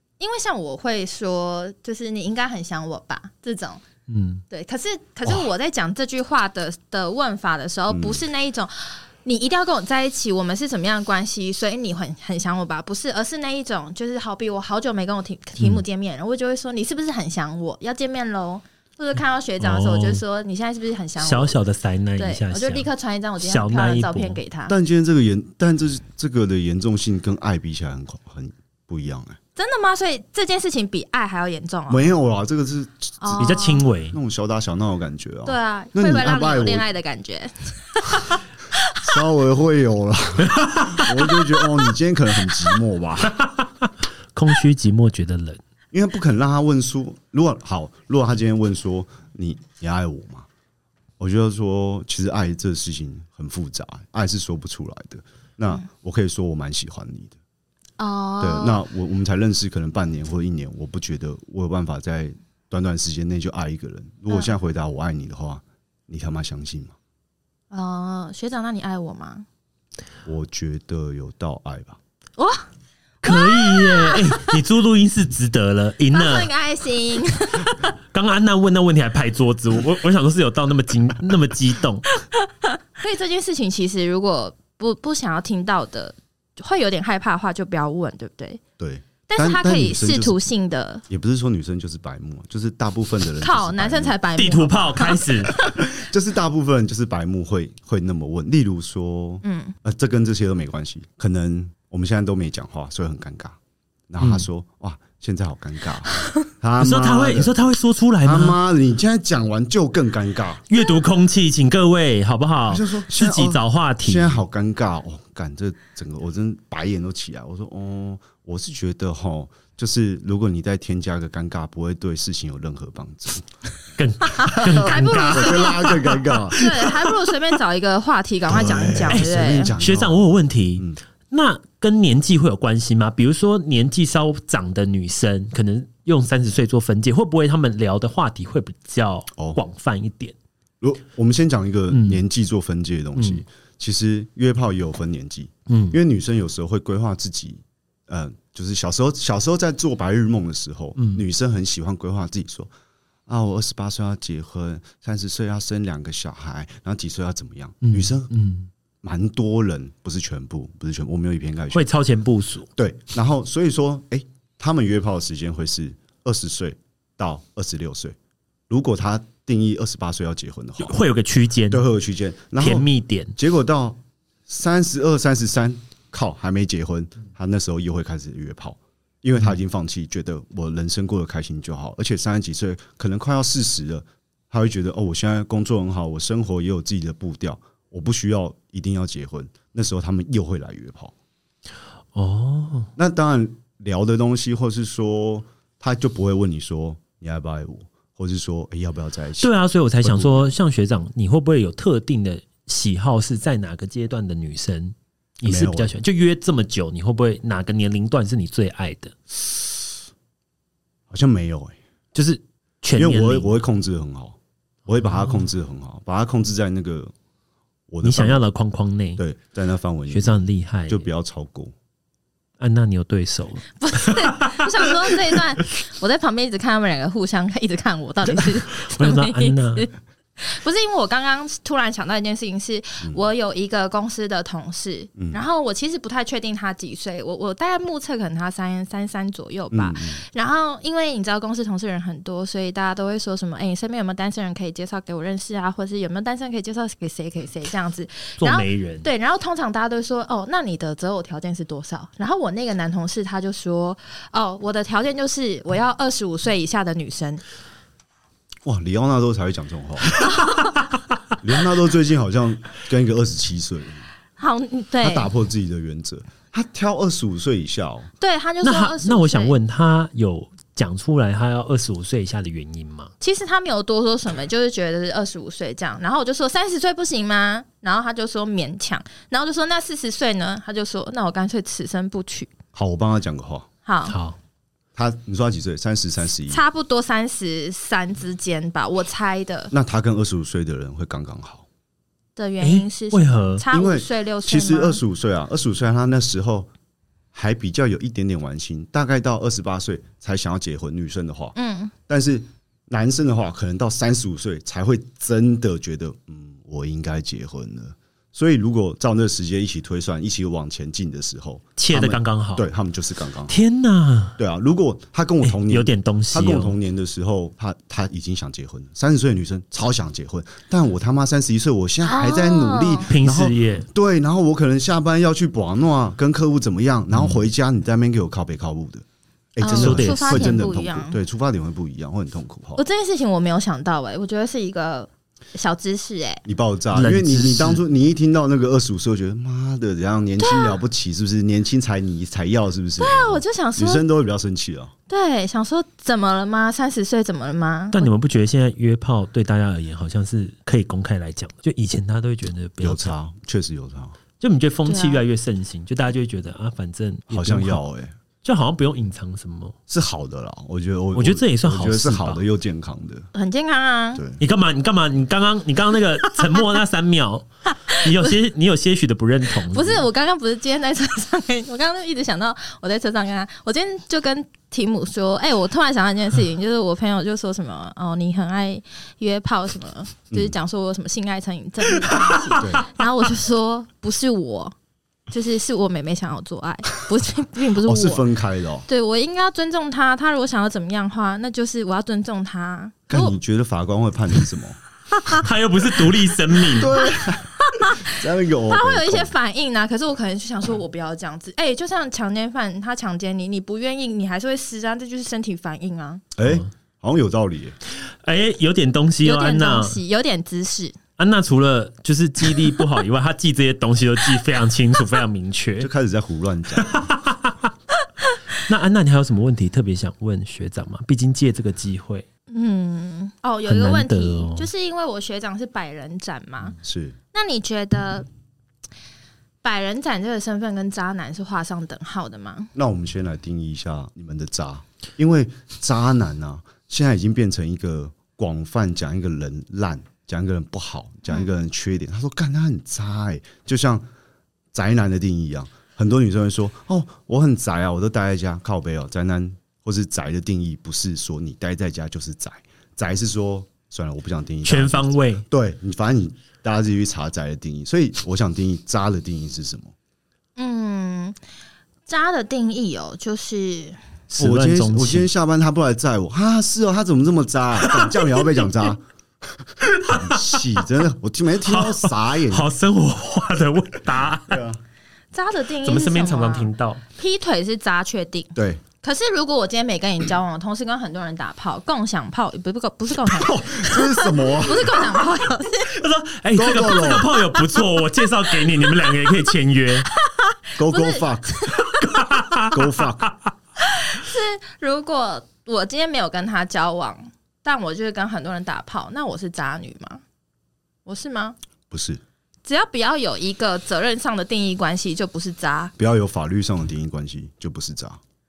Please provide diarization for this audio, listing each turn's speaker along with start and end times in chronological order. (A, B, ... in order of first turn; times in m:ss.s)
0:00.2-0:03.8 A
0:04.1-0:04.4 B
0:04.5-0:21.6 A
0:07.9-0:08.2 C
0:19.6-0:20.2 B
0:21.2-0:22.9 B
0:22.2-0:24.7 A
0:23.4-0:24.4 B
0:24.7-0:29.4 C
0:29.6-0:32.1 A
0:31.9-0:36.8 C
0:33.2-0:33.8 A
0:33.4-0:34.2 B
0:35.4-0:39.2 A
0:39.0-0:43.4 C
0:40.5-0:41.0 B
0:41.2-0:41.6 A
0:43.4-0:45.6 B
0:45.9-0:50.5 C
0:51.2-0:57.4 C
0:58.0-0:58.8 A
0:58.4-1:06.9 C
1:07.7-1:09.4 A
1:10.2-1:12.0 C
1:12.4-1:12.7 A
1:13.2-1:14.6 A
1:13.2-1:16.5 B
1:16.1-1:17.9 A
1:18.1-1:22.1 B
1:22.3-1:28.6 A
1:28.8-1:30.4 C
1:29.3-1:31.0 A
1:31.1-1:34.2 C
1:33.4-1:35.2 A
1:34.4-1:35.5 B
1:35.6-1:43.6 C
1:39.4-1:39.8 A
1:44.1-1:47.5 C
1:44.2-1:44.5 B
1:46.8-1:48.6 B
1:48.2-1:50.6 C
1:50.7-1:54.4 B
1:52.7-2:03.6 C
2:04.0-2:07.1 B
2:04.4-2:05.9 A
2:04.4-2:06.6 C
2:06.5-2:09.7 A
2:08.5-2:11.0 C
2:09.1-2:20.3 B
2:20.8-2:32.7 C
2:21.9-2:22.2 B
2:23.2-2:23.4 B
2:25.7-2:26.0 B
2:31.0-2:31.2 B
2:33.3-2:38.3 C
2:37.8-2:38.7 B
2:39.0-2:41.9 C
2:41.7-2:42.7 B
2:42.8-2:48.2 C
2:48.7-2:50.9 C
2:50.8-2:51.8 B
2:51.7-3:11.1 C
2:52.6-2:53.3 B
3:12.1-3:12.9 B
3:13.0-3:19.5 C
3:19.4-3:29.2 B
3:20.0-3:20.5 C
3:25.4-3:25.9 C
3:31.1-3:31.8 C
3:32.1-3:33.5 B
3:32.9-3:37.1 C
3:34.9-3:35.5 B
3:37.9-3:38.4 C
3:38.0-3:39.2 B
3:39.2-3:41.7 C
3:40.1-3:41.1 B
3:42.6-3:45.4 B
3:43.7-4:17.4 A
3:48.3-3:49.9 B
3:55.2-3:55.4 C
3:59.7-4:00.2 C
4:08.4-4:09.1 B
4:18.6-4:20.2 C
4:21.4-4:24.1 C
4:24.4-4:25.3 A
4:25.0-4:28.1 C
4:28.2-4:29.6 A
4:28.6-4:33.1 B
4:33.2-4:42.5 A
4:42.7-4:43.7 C
4:43.8-4:44.2 A
4:44.1-4:44.4 B
4:45.0-4:46.6 C
4:46.5-4:49.7 A
4:49.7-4:51.7 C
4:52.4-4:55.0 A
4:52.6-4:53.6 B
4:53.7-4:56.7 C
4:57.3-5:01.5 C
5:01.5-5:01.9 A
5:02.1-5:13.5 C
5:11.8-5:12.7 B
5:13.5-5:14.4 B
5:14.4-5:32.8 C
5:15.4-5:16.8 B
5:22.0-5:23.1 A
5:23.1-5:23.9 B
5:29.6-5:31.2 A
5:29.7-5:30.6 B
5:32.8-5:36.4 A
5:36.4-5:44.9 C
5:36.9-5:37.8 B
5:40.4-5:40.8 A
5:43.0-5:44.0 A
5:45.1-5:48.1 A
5:47.9-5:53.1 B
5:52.8-5:54.2 C
5:54.4-5:57.8 B
5:54.8-5:55.2 A
5:57.3-5:58.1 C
5:58.4-5:59.7 B
5:59.9-6:03.3 C
6:01.1-6:02.4 B
6:03.3-6:04.2 A
6:04.1-6:04.4 C
6:04.4-6:10.1 B
6:07.7-6:08.3 A
6:09.7-6:24.7 A
6:22.6-6:22.9 C
6:25.3-6:28.2 A
6:27.8-6:28.9 C
6:28.9-6:33.4 A
6:33.1-6:34.8 C
6:35.1-6:46.2 A
6:35.3-6:37.0 B
6:36.7-6:39.3 C
6:46.4-6:47.8 C
6:46.4-6:46.7 B
6:48.1-6:50.0 B
6:49.2-6:51.0 A
6:51.2-6:55.9 B
6:55.8-6:57.1 C
6:56.8-6:57.6 B
6:58.6-7:02.2 B
7:02.5-7:06.8 A
7:03.7-7:04.7 B
7:06.8-7:07.2 C
7:07.3-7:08.3 A
7:09.6-7:12.7 A
7:12.7-7:24.0 C
7:24.7-7:39.9 C
7:34.6-7:35.4 B
7:40.6-7:41.4 A
7:42.1-7:44.0 A
7:44.3-7:45.3 B
7:44.4-7:52.7 C
7:47.9-7:48.1 B
7:49.8-7:50.6 B
7:51.6-7:54.6 B
7:54.5-7:54.8 C
7:55.3-8:06.0 A
7:55.8-7:57.0 B
7:58.5-7:58.8 C
8:03.3-8:04.1 B
8:03.8-8:05.0 C
8:05.9-8:10.1 B
8:06.5-8:07.3 C
8:07.4-8:07.8 A
8:10.1-8:12.0 A
8:10.8-8:11.6 C
8:11.9-8:12.8 B
8:12.7-8:13.3 C
8:13.8-8:20.2 A
8:21.0-8:21.5 A
8:21.9-8:22.2 C
8:22.6-8:25.9 A
8:26.0-8:28.2 C